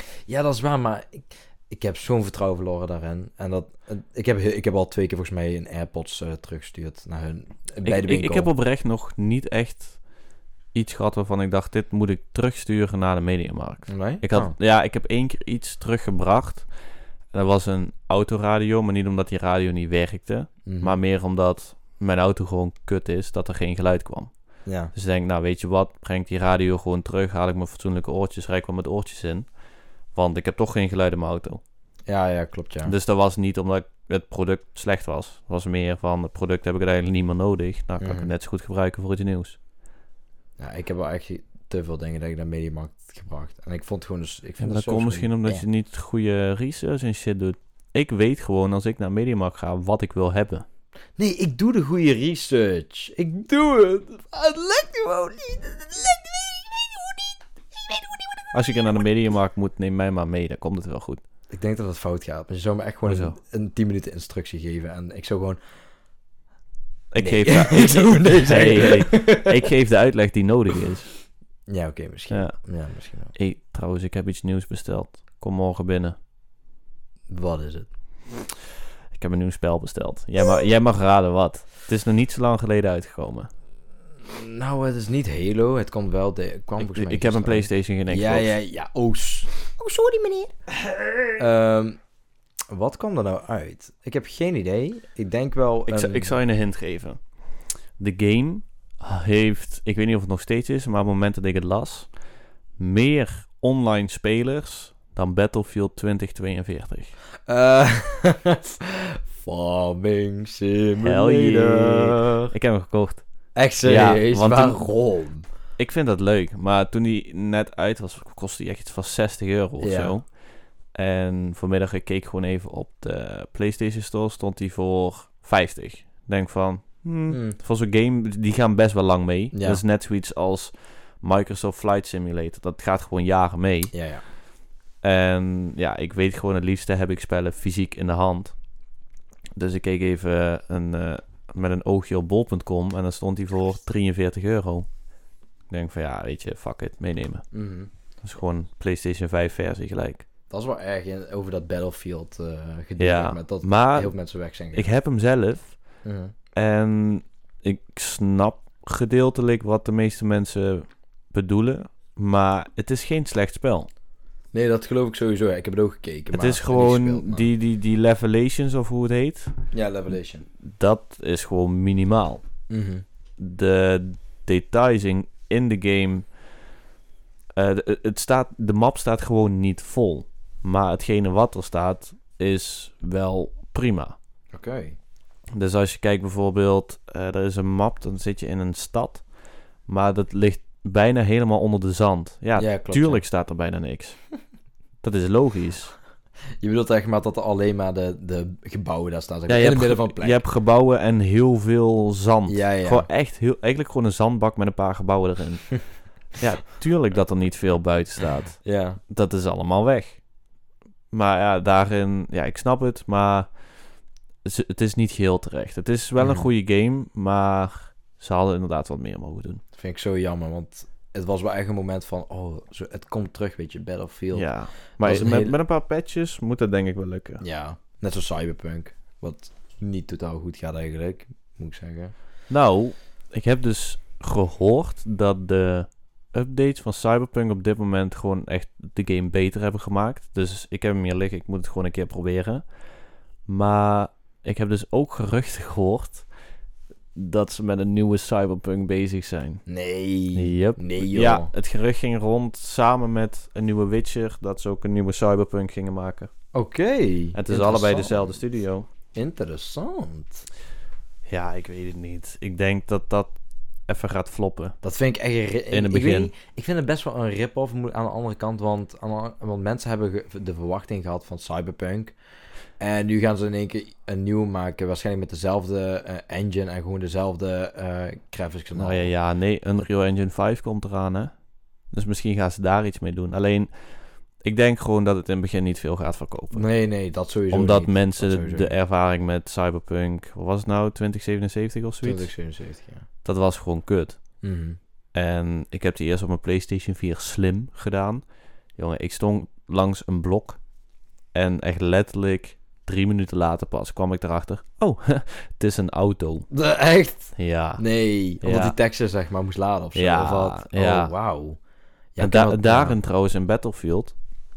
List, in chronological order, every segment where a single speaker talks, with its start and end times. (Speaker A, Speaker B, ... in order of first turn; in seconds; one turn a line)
Speaker A: 0.3-8.5
Speaker B: 7.8-10.0
Speaker B: 10.7-16.7
Speaker A: 13.9-14.5
Speaker B: 17.3-24.3
Speaker A: 20.7-20.9
Speaker A: 24.7-24.9
Speaker B: 24.9-29.5
Speaker B: 30.1-31.6
Speaker A: 32.1-32.9
Speaker B: 32.9-39.6
Speaker A: 38.0-38.3
Speaker A: 40.6-45.6
Speaker B: 44.6-50.7
Speaker A: 51.2-58.6
Speaker B: 58.5-61.2
Speaker A: 61.5-65.6
Speaker B: 63.1-63.4
Speaker B: 67.1-71.1
Speaker A: 67.2-69.7
Speaker A: 71.7-73.3
Speaker B: 72.3-72.6
Speaker B: 73.3-76.2
Speaker A: 77.3-77.9
Speaker B: 79.1-83.5
Speaker A: 84.2-90.5
Speaker B: 86.8-88.5
Speaker A: 91.4-92.0
Speaker A: 92.7-96.3
Speaker B: 95.9-97.2
Speaker B: 98.0-102.1
Speaker B: 102.8-107.1
Speaker A: 107.5-112.5
Speaker B: 111.0-113.2
Speaker A: 113.5-115.5
Speaker B: 113.8-114.8
Speaker B: 115.8-120.3
Speaker A: 119.8-120.2
Speaker B: 120.9-133.9
Speaker A: 127.3-127.6
Speaker A: 129.5-129.8
Speaker A: 133.9-134.2
Speaker B: 135.0-138.6
Speaker B: 139.6-144.9
Speaker B: 145.7-147.5
Speaker A: 147.5-147.9
Speaker B: 148.2-150.3
Speaker A: 150.5-154.9
Speaker B: 153.0-154.1
Speaker B: 154.7-155.8
Speaker A: 156.0-156.3
Speaker B: 156.6-163.9
Speaker A: 164.5-167.5
Speaker B: 166.3-169.5
Speaker A: 169.7-170.5
Speaker B: 170.6-172.4
Speaker A: 172.7-173.1
Speaker B: 173.4-176.2
Speaker B: 177.6-184.2
Speaker A: 184.5-185.0
Speaker B: 185.6-189.2
Speaker B: 189.9-194.2
Speaker A: 192.6-193.2
Speaker B: 195.0-195.9
Speaker A: 196.6-200.4
Speaker B: 199.5-210.2
Speaker A: 202.5-203.1
Speaker A: 208.6-209.0
Speaker B: 211.1-213.5
Speaker B: 214.4-219.6
Speaker A: 216.2-216.5
Speaker A: 219.8-224.5
Speaker B: 224.3-227.4
Speaker A: 225.0-225.6
Speaker A: 227.4-232.1
Speaker B: 232.5-242.6
Speaker B: 243.5-246.3
Speaker B: 247.2-249.6
Speaker A: 249.7-251.5
Speaker B: 250.3-256.3
Speaker A: 256.5-258.4
Speaker B: 257.4-258.9
Speaker A: 259.1-260.4
Speaker B: 261.3-263.3
Speaker B: 263.9-264.8
Speaker A: 264.8-272.1
Speaker B: 265.7-266.3
Speaker A: 272.8-279.1
Speaker B: 278.8-281.3
Speaker B: 281.9-283.7
Speaker B: 284.4-286.6
Speaker A: 286.5-288.7
Speaker B: 287.5-292.3
Speaker A: 292.0-293.1
Speaker B: 293.2-294.2
Speaker A: 294.4-294.8
Speaker B: 295.1-298.2
Speaker B: 298.8-300.6
Speaker B: 301.3-306.5
Speaker A: 306.5-311.6
Speaker B: 307.4-307.8
Speaker B: 308.4-308.8
Speaker B: 309.9-311.1
Speaker A: 312.1-313.0
Speaker B: 312.2-314.1